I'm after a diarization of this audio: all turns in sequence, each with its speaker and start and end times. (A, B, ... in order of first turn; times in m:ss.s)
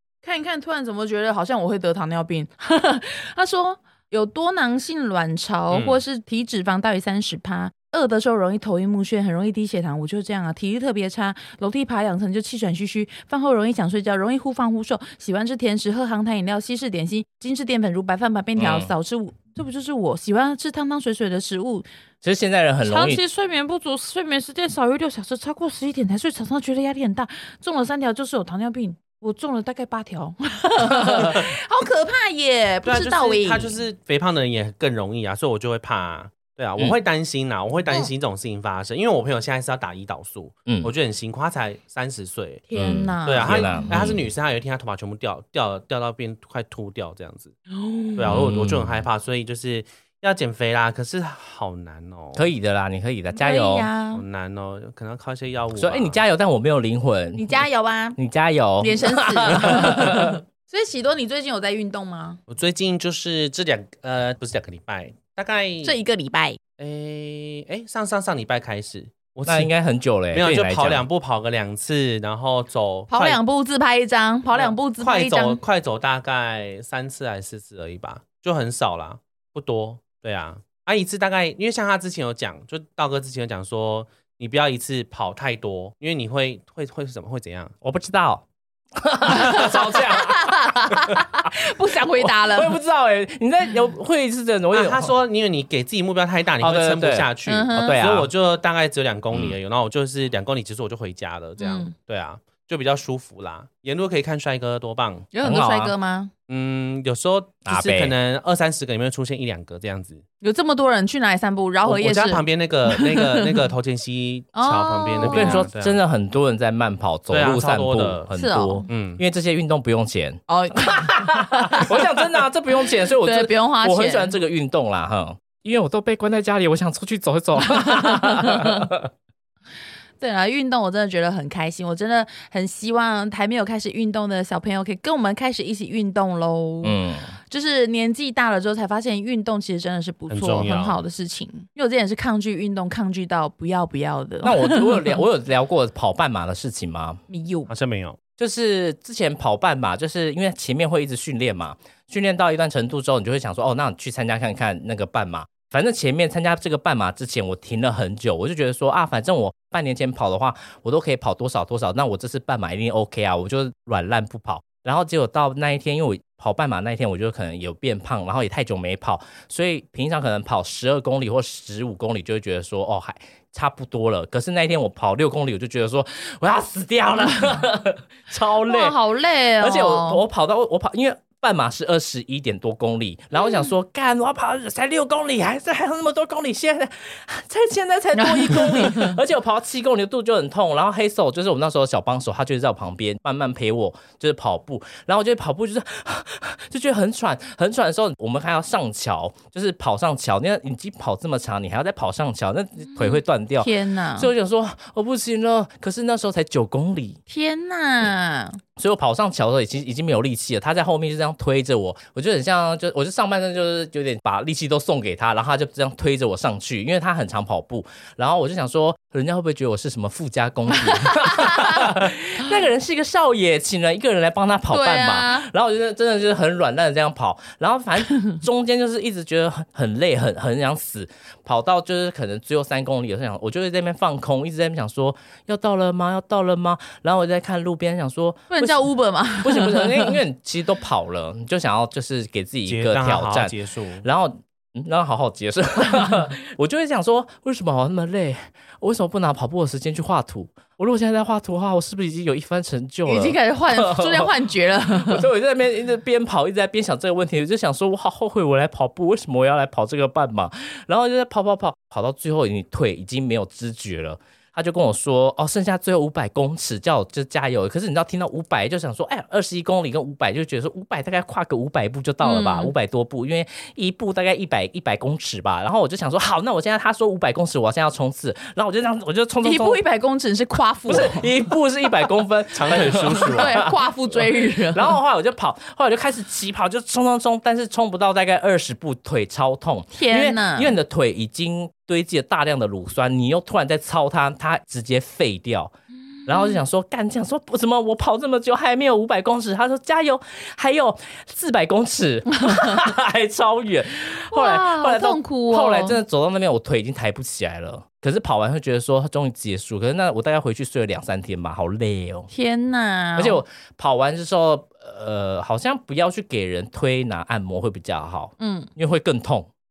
0:00.2-0:21.8 A
0:05.7-0:06.0 B
0:18.6-0:18.9 C
0:22.2-0:23.2 C
0:22.8-0:33.8 A
0:32.8-0:42.7 B
0:40.7-0:40.9 C
0:42.7-0:43.9 A
0:42.7-0:44.2 C
0:43.2-0:47.5 B
0:47.7-0:48.3 A
0:48.2-0:52.5 B
0:48.3-0:49.0 C
0:52.3-0:53.9 C
0:53.3-0:54.2 A
0:54.1-0:56.2 B
0:55.7-0:57.6 C
0:57.4-0:58.2 A
0:58.2-1:00.4 C
0:58.8-1:02.4 A
1:02.5-1:06.0 B
1:05.8-1:06.6 A
1:06.8-1:09.7 B
1:09.4-1:11.0 C
1:10.3-1:13.4 B
1:13.1-1:15.6 A
1:14.5-1:27.7 B
1:27.8-1:31.5 C
1:29.3-1:32.8 A
1:32.2-1:35.1 C
1:34.7-1:45.3 B
1:36.6-1:38.3 C
1:37.4-1:38.0 A
1:41.6-1:41.9 A
1:45.3-1:46.3 A
1:45.4-1:45.9 C
1:46.5-1:50.2 B
1:47.6-1:48.1 C
1:50.4-1:53.6 A
1:51.8-1:56.0 B
1:54.5-1:55.6 A
1:55.2-2:09.1 C
1:57.3-1:58.3 B
1:58.3-1:58.9 A
1:58.9-1:59.2 B
2:00.5-2:02.2 A
2:02.8-2:04.3 A
2:07.6-2:08.9 A
2:10.2-2:25.2 A
2:16.8-2:17.3 C
2:20.3-2:21.0 B
2:24.4-2:27.2 C
2:27.3-2:27.7 A
2:27.7-2:28.2 B
2:28.4-2:59.0 C
2:58.6-3:00.2 A
2:59.6-3:27.2 C
3:03.4-3:03.7 A
3:08.2-3:09.2 A
3:23.0-3:24.3 A
3:27.3-3:28.6 A
3:28.8-3:58.9 C
3:40.8-3:41.9 A
3:44.7-3:45.5 A
3:58.5-4:00.2 A
3:59.4-4:39.8 C
4:02.7-4:04.0 B
4:13.0-4:15.3 A
4:32.2-4:32.7 A
4:39.4-4:41.3 A
4:40.9-4:55.7 C
4:42.5-4:43.6 B
4:42.9-4:45.0 A
4:49.9-4:50.8 A
4:56.2-4:56.6 A
4:56.2-5:12.3 C
5:02.4-5:02.8 A
5:04.3-5:06.0 A
5:12.3-5:13.4 A
5:13.2-5:19.5 C
5:18.4-5:18.7 A